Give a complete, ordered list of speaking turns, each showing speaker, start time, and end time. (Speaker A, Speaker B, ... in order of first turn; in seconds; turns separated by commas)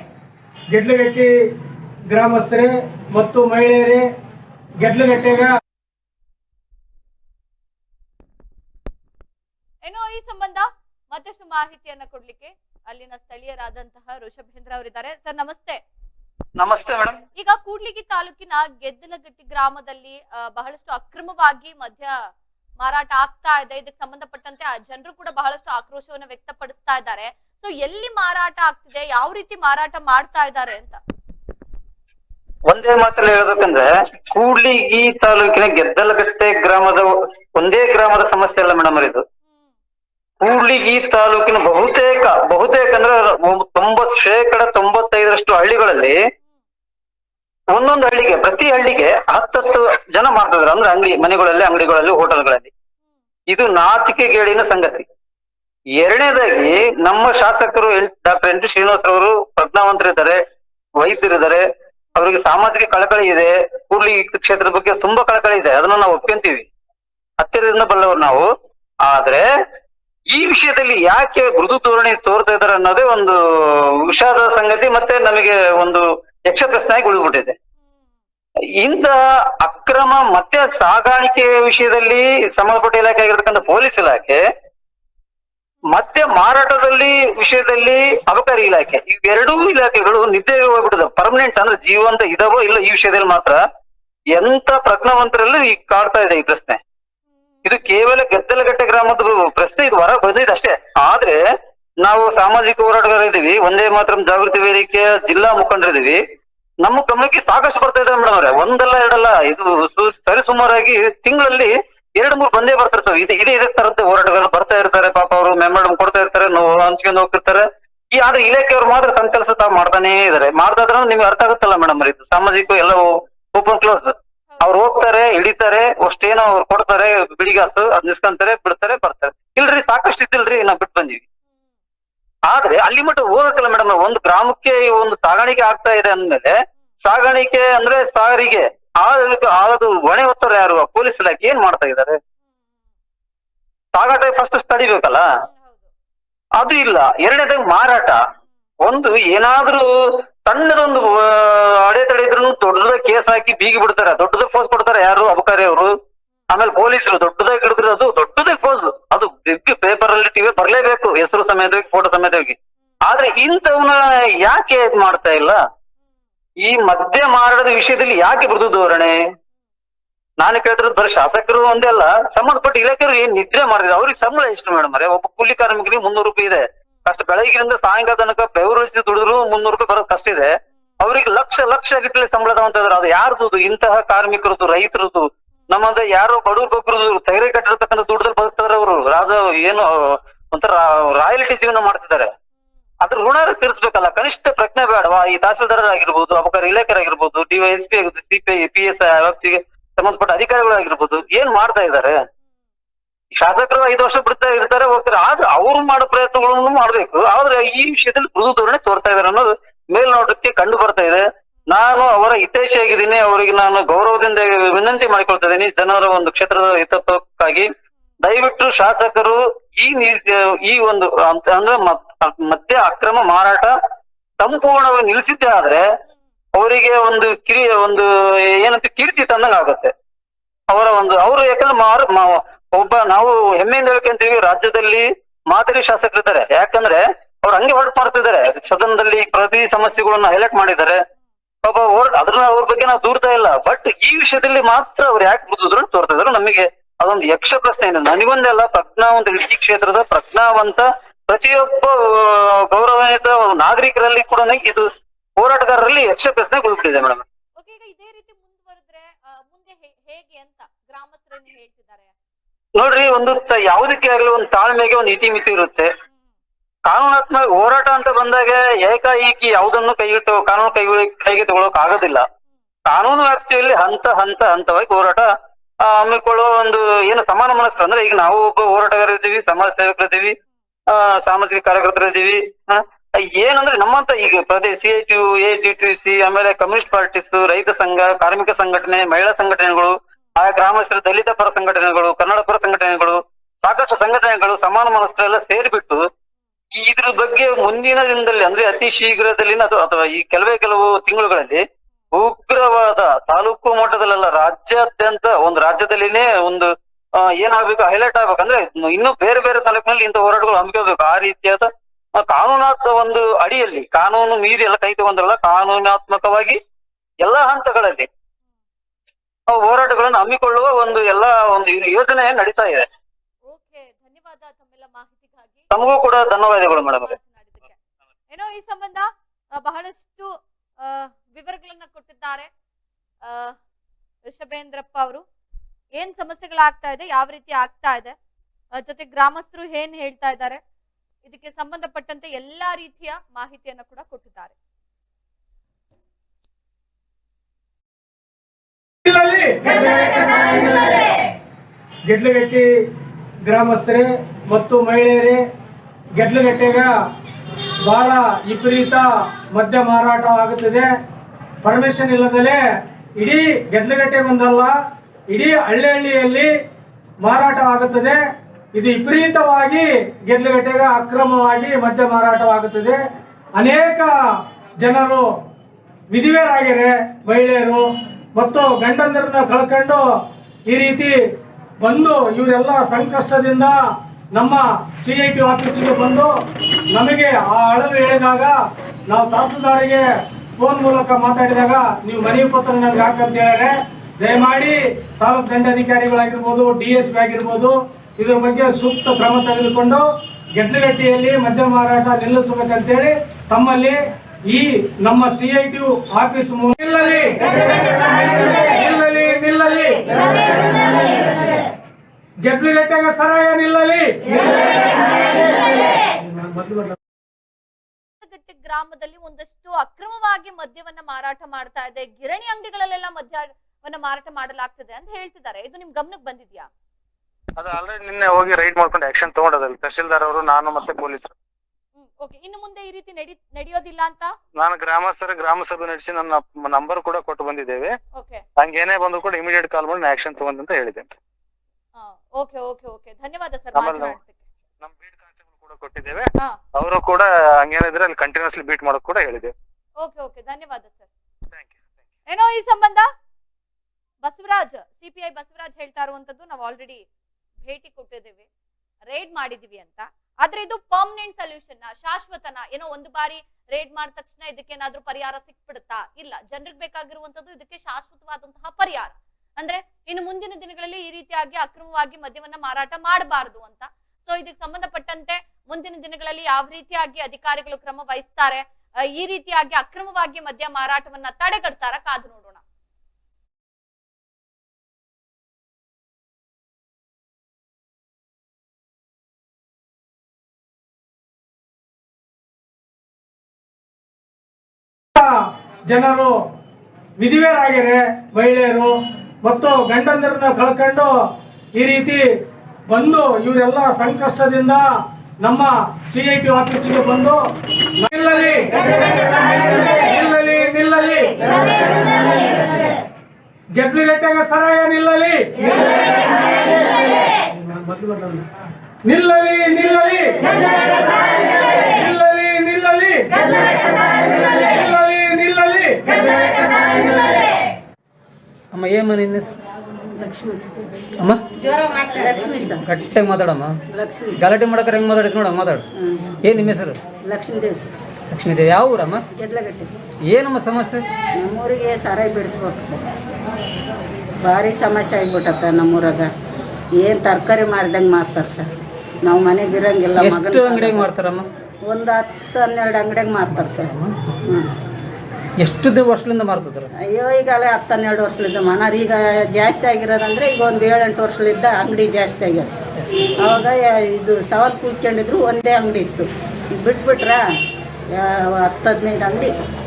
Speaker A: 0.7-1.3, Speaker A: 2.1-4.1, Speaker A: 4.8-5.5, Speaker B: 9.8-15.8, Speaker C: 16.6-17.2, Speaker B: 17.4-22.1, Speaker B: 22.8-31.0, Speaker C: 32.7-39.2, Speaker C: 40.4-46.1, Speaker C: 47.7-52.7, Speaker C: 53.5-55.0, Speaker C: 56.0-60.4, Speaker C: 61.0-61.6, Speaker C: 62.1-66.7, Speaker C: 67.4-68.5, Speaker C: 69.0-69.4, Speaker C: 70.3-73.3, Speaker C: 74.1-77.5, Speaker C: 78.8-84.4, Speaker C: 85.9-93.6, Speaker C: 94.3-96.8, Speaker C: 97.6-101.4, Speaker C: 102.0-106.2, Speaker C: 106.8-131.2, Speaker C: 132.5-136.5, Speaker C: 137.0-142.2, Speaker C: 143.9-145.2, Speaker B: 145.5-145.8, Speaker C: 146.6-148.2, Speaker C: 148.8-149.9, Speaker C: 150.4-155.9, Speaker C: 156.5-165.6, Speaker C: 166.6-169.1, Speaker C: 170.4-192.3, Speaker C: 193.0-202.1, Speaker C: 203.4-217.7, Speaker C: 218.2-223.7, Speaker C: 224.4-225.8, Speaker C: 226.6-229.9, Speaker C: 230.7-241.0, Speaker C: 241.6-254.8, Speaker C: 255.4-257.2, Speaker B: 257.6-262.1, Speaker C: 262.8-265.9, Speaker C: 266.9-272.2, Speaker C: 272.9-275.3, Speaker C: 275.8-280.4, Speaker C: 280.9-296.0, Speaker C: 296.7-316.6, Speaker C: 317.2-318.1, Speaker C: 319.5-322.9, Speaker B: 323.4-325.7, Speaker C: 325.7-327.1, Speaker B: 327.0-327.8, Speaker B: 328.3-332.5, Speaker B: 333.2-333.5, Speaker B: 334.3-335.2, Speaker B: 336.0-338.1, Speaker B: 338.8-340.6, Speaker B: 341.2-344.6, Speaker A: 349.0-349.8, Speaker A: 352.1-352.7, Speaker A: 353.5-355.4, Speaker A: 356.2-356.9, Speaker A: 357.8-360.9, Speaker A: 361.6-362.6, Speaker A: 363.2-364.8, Speaker A: 365.3-366.5, Speaker A: 367.2-368.2, Speaker A: 368.7-373.0, Speaker A: 373.6-374.1, Speaker A: 374.8-375.3, Speaker A: 376.1-380.0, Speaker A: 380.7-381.2, Speaker A: 381.8-383.8, Speaker A: 384.3-386.3, Speaker A: 386.9-388.6, Speaker A: 389.1-390.1, Speaker A: 390.6-410.2, Speaker A: 412.4-414.2, Speaker A: 416.4-416.7, Speaker B: 418.2-426.7, Speaker D: 427.6-431.3, Speaker B: 432.0-434.3, Speaker D: 434.6-437.9, Speaker B: 438.1-438.4, Speaker D: 438.6-441.1, Speaker B: 441.9-444.4, Speaker D: 443.8-444.1, Speaker D: 444.8-449.5, Speaker B: 450.0-451.1, Speaker D: 451.5-451.8, Speaker B: 452.3-453.1, Speaker B: 454.2-457.0, Speaker B: 457.6-458.5, Speaker B: 459.1-482.6, Speaker A: 495.1-496.4, Speaker A: 497.2-501.1, Speaker A: 501.8-502.2, Speaker A: 502.9-504.9, Speaker A: 505.4-507.4, Speaker A: 508.0-511.5, Speaker A: 513.8-515.7, Speaker A: 517.5-518.5, Speaker A: 519.0-520.6, Speaker A: 521.8-523.6, Speaker A: 524.4-526.3, Speaker E: 528.7-529.5, Speaker F: 530.2-530.9, Speaker F: 531.7-532.8, Speaker E: 532.8-533.7, Speaker F: 533.9-534.4, Speaker E: 534.4-535.8, Speaker F: 536.0-536.4, Speaker E: 536.4-537.0, Speaker F: 537.2-537.9, Speaker E: 538.3-539.2, Speaker F: 539.3-539.9, Speaker E: 540.3-541.0, Speaker F: 541.4-543.0, Speaker F: 544.4-546.3, Speaker F: 547.0-548.7, Speaker F: 549.2-551.1, Speaker E: 550.1-551.5, Speaker F: 551.9-553.9, Speaker E: 555.6-556.9, Speaker F: 557.1-562.8, Speaker F: 563.4-567.4, Speaker F: 568.1-569.5